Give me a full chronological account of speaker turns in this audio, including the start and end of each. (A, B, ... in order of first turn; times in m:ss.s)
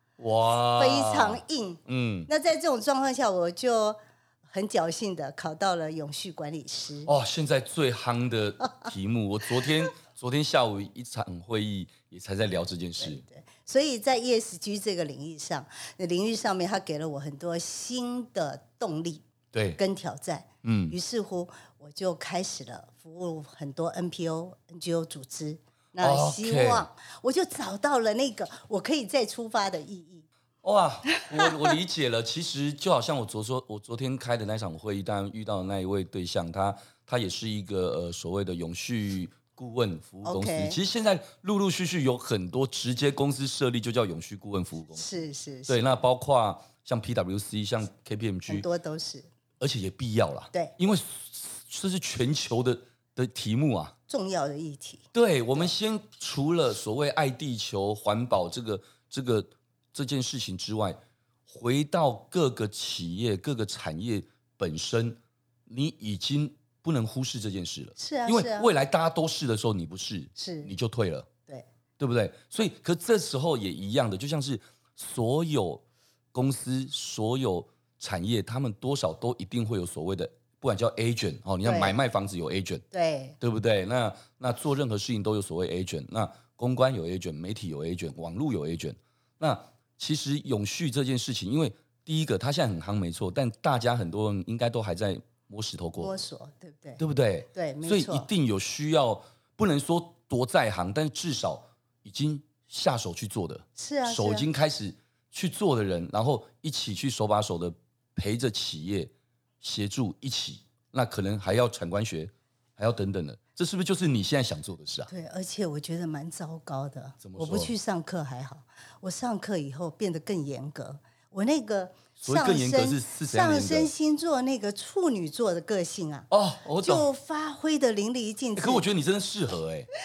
0:00.2-0:02.3 A
0:00.7-0:07.1 B
0:07.1-0:13.2 A
0:13.0-0:19.2 B
0:19.5-0:19.8 A
0:19.8-0:30.2 B
0:20.6-0:21.0 A
0:26.0-0:26.9 A
0:30.6-0:45.0 A
0:31.1-0:31.5 B
0:40.2-0:40.8 B
0:45.0-0:46.0 B
0:45.7-0:48.6 A
0:48.5-0:49.3 B
0:49.6-0:53.9 A
0:54.1-0:55.7 B
0:55.1-1:11.3 A
1:08.0-1:08.7 B
1:10.4-1:10.7 B
1:12.0-1:15.8 A
1:16.3-1:22.8 A
1:21.6-1:22.0 B
1:22.9-1:23.4 B
1:23.4-1:36.1 A
1:36.0-1:37.0 B
1:37.0-1:55.1 A
1:37.5-1:38.3 B
1:43.8-1:44.5 B
1:55.1-2:06.3 B
1:57.2-1:57.7 A
2:02.2-2:03.9 A
2:06.3-2:07.1 A
2:06.8-2:08.8 B
2:08.6-2:09.9 A